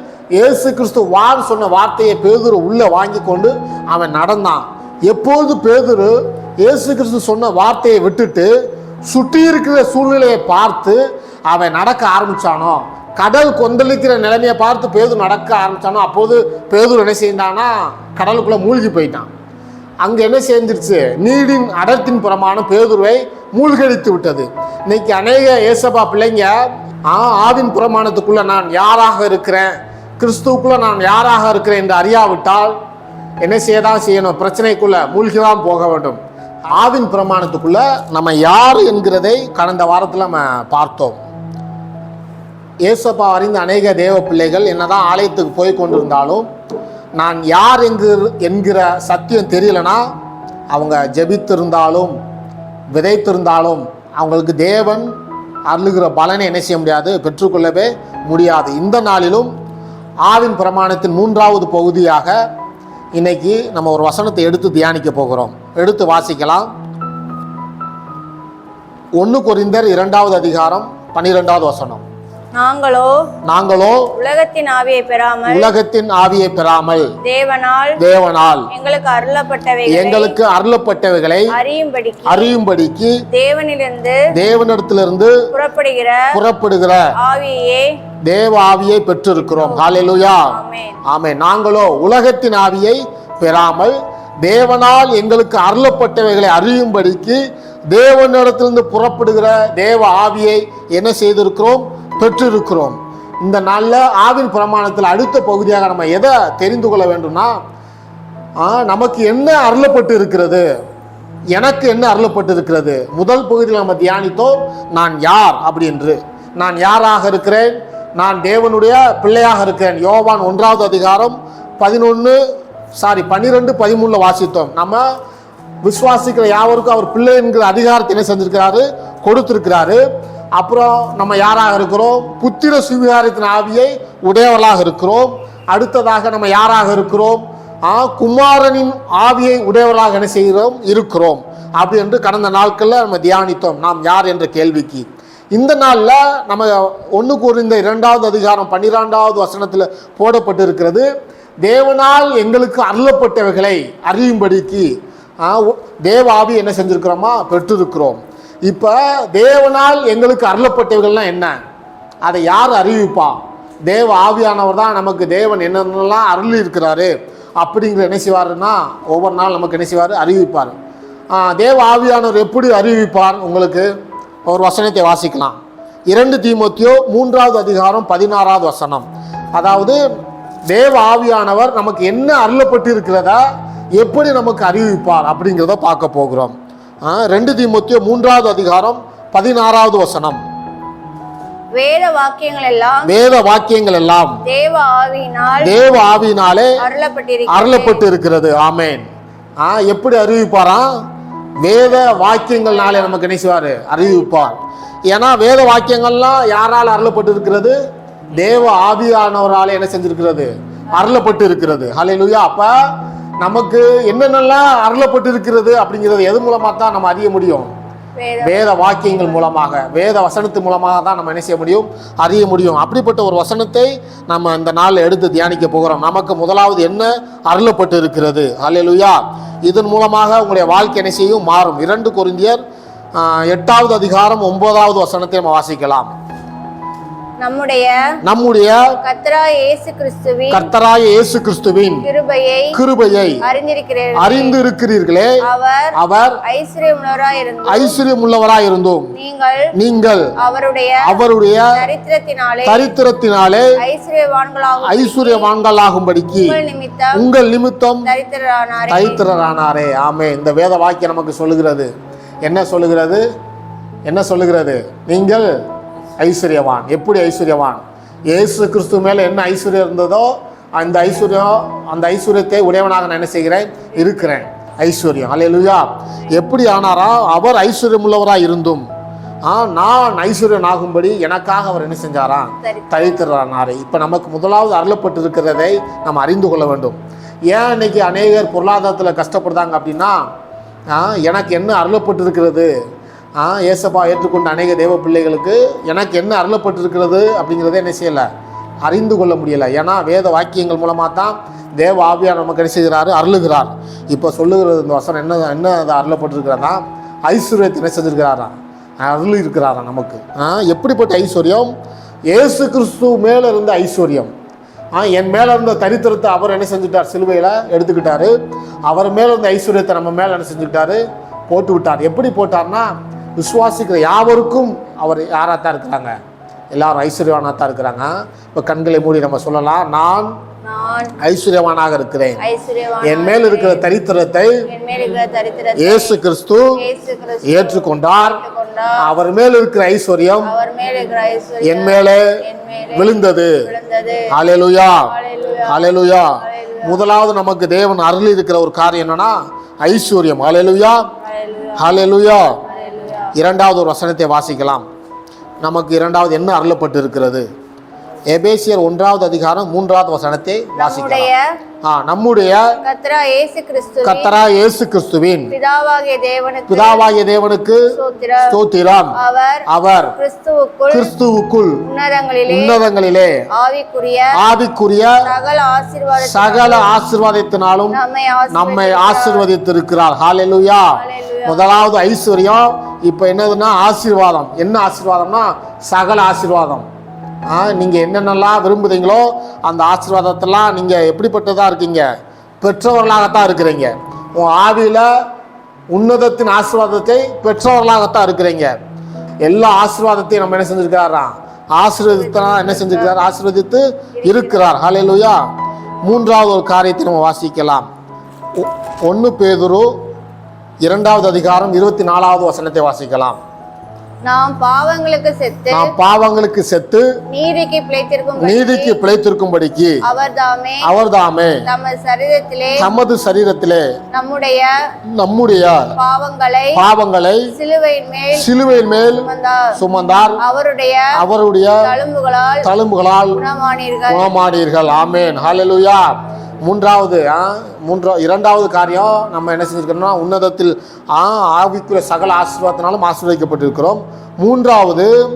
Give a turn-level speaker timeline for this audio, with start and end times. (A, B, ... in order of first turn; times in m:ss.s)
0:00.4-0:08.5 A
0:09.1-0:19.3 A
0:20.0-0:26.5 A
0:27.0-0:32.8 A
0:33.4-0:36.2 A
0:36.7-0:41.2 A
0:42.8-0:46.5 A
0:47.2-0:50.1 A
0:50.7-0:52.2 A
0:52.9-0:55.1 A
0:55.7-0:59.5 A
1:00.2-1:02.4 A
1:03.1-1:06.7 A
1:09.2-1:12.0 A
1:12.5-1:13.3 B
1:13.4-1:14.1 A
1:14.1-1:15.7 B
1:15.5-1:17.2 A
1:17.2-1:18.0 B
1:18.0-1:18.7 A
1:18.7-1:20.4 B
1:19.9-1:21.5 A
1:21.5-1:22.6 B
1:22.2-1:23.2 A
1:23.3-1:24.2 B
1:24.3-1:25.5 A
1:25.5-1:26.3 B
1:26.3-1:27.1 A
1:27.2-1:28.0 B
1:28.2-1:47.6 A
1:29.5-1:29.9 B
1:30.4-1:31.0 B
1:48.6-1:50.6 A
1:51.5-2:02.4 A
2:03.0-2:05.0 A
2:05.8-2:10.0 A
2:10.5-2:31.1 A
2:31.6-2:41.6 A
2:42.2-2:50.7 A
2:51.3-2:53.9 A
2:54.5-2:55.6 A
2:56.1-3:00.0 A
3:00.7-3:03.4 A
3:04.0-3:10.4 A
3:11.7-3:13.1 B
3:13.0-3:14.4 A
3:14.4-3:15.8 B
3:15.6-3:16.8 A
3:16.8-3:18.0 B
3:17.5-3:19.0 A
3:19.6-3:20.9 A
3:21.6-3:24.6 A
3:25.1-3:27.8 A
3:28.3-3:32.7 A
3:33.4-3:37.7 A
3:38.2-3:39.4 B
3:38.4-3:52.6 A
3:53.2-3:56.1 A
3:57.4-3:58.0 B
3:58.2-3:59.0 A
3:59.0-4:00.7 B
4:00.5-4:02.1 A
4:01.9-4:02.8 B
4:02.7-4:03.4 A
4:03.4-4:04.6 B
4:04.2-4:05.4 A
4:05.4-4:08.0 B
4:05.9-4:06.4 A
4:07.7-4:09.1 A
4:09.1-4:09.7 B
4:09.7-4:10.3 A
4:10.4-4:11.2 B
4:11.0-4:11.8 A
4:11.7-4:12.9 B
4:12.6-4:13.8 A
4:13.8-4:15.5 B
4:14.8-4:16.6 A
4:16.3-4:17.2 B
4:17.1-4:18.1 A
4:18.0-4:19.2 B
4:18.9-4:21.9 A
4:22.4-4:23.2 A
4:24.1-4:25.5 A
4:26.2-4:38.8 A
4:34.1-4:34.4 B
4:39.4-4:47.0 A
4:42.6-4:43.2 B
4:47.5-4:50.2 A
4:50.9-4:52.7 A
4:53.4-4:58.3 A
4:58.8-5:11.7 A
5:12.3-5:14.3 A
5:14.9-5:18.4 A
5:18.9-5:26.1 A
5:26.7-5:30.3 A
5:30.6-5:31.1 B
5:31.2-5:32.4 A
5:32.4-5:33.8 B
5:33.0-5:34.6 A
5:34.7-5:36.2 B
5:35.8-5:36.8 A
5:36.8-5:39.0 B
5:37.4-5:38.4 A
5:39.0-5:40.5 A
5:40.4-5:44.3 B
5:41.6-5:42.4 A
5:42.9-5:43.6 A
5:44.3-5:45.1 A
5:44.9-5:47.2 B
5:45.6-5:51.0 A
5:51.2-5:53.3 B
5:51.8-5:52.6 A
5:53.3-5:54.8 A
5:55.6-5:57.4 A
5:58.3-6:01.3 A
6:00.8-6:01.4 B
6:01.8-6:02.8 A
6:02.7-6:04.3 B
6:04.0-6:05.5 A
6:05.5-6:07.1 B
6:06.7-6:07.9 A
6:07.9-6:08.5 B
6:08.5-6:09.2 A
6:09.1-6:11.1 B
6:09.7-6:10.1 A
6:10.9-6:11.8 A
6:11.8-6:12.8 B
6:12.5-6:13.4 A
6:13.5-6:14.3 B
6:14.3-6:15.2 A
6:15.2-6:17.0 B
6:16.2-6:18.0 A
6:17.9-6:19.5 B
6:18.5-6:26.8 A
6:20.9-6:21.6 B
6:27.5-6:32.0 A
6:32.6-6:35.1 A
6:35.9-6:38.8 A
6:39.4-6:45.4 A
6:42.0-6:43.2 B
6:44.2-6:44.7 B
6:46.0-6:47.9 A
6:48.6-6:49.9 A
6:50.8-6:53.4 A
6:54.2-6:55.9 B
6:55.7-6:57.1 A
6:57.3-6:59.0 B
6:58.4-7:00.0 A
7:00.0-7:00.9 B
7:00.8-7:01.6 A
7:01.6-7:02.9 B
7:02.8-7:03.8 A
7:04.1-7:04.8 B
7:05.1-7:05.9 A
7:06.0-7:06.8 B
7:06.7-7:07.5 A
7:07.5-7:08.5 B
7:08.3-7:10.4 A
7:09.1-7:09.7 B
7:10.4-7:11.2 B
7:11.1-7:11.9 A
7:11.8-7:12.7 B
7:12.6-7:13.4 A
7:13.3-7:14.3 B
7:14.1-7:25.1 A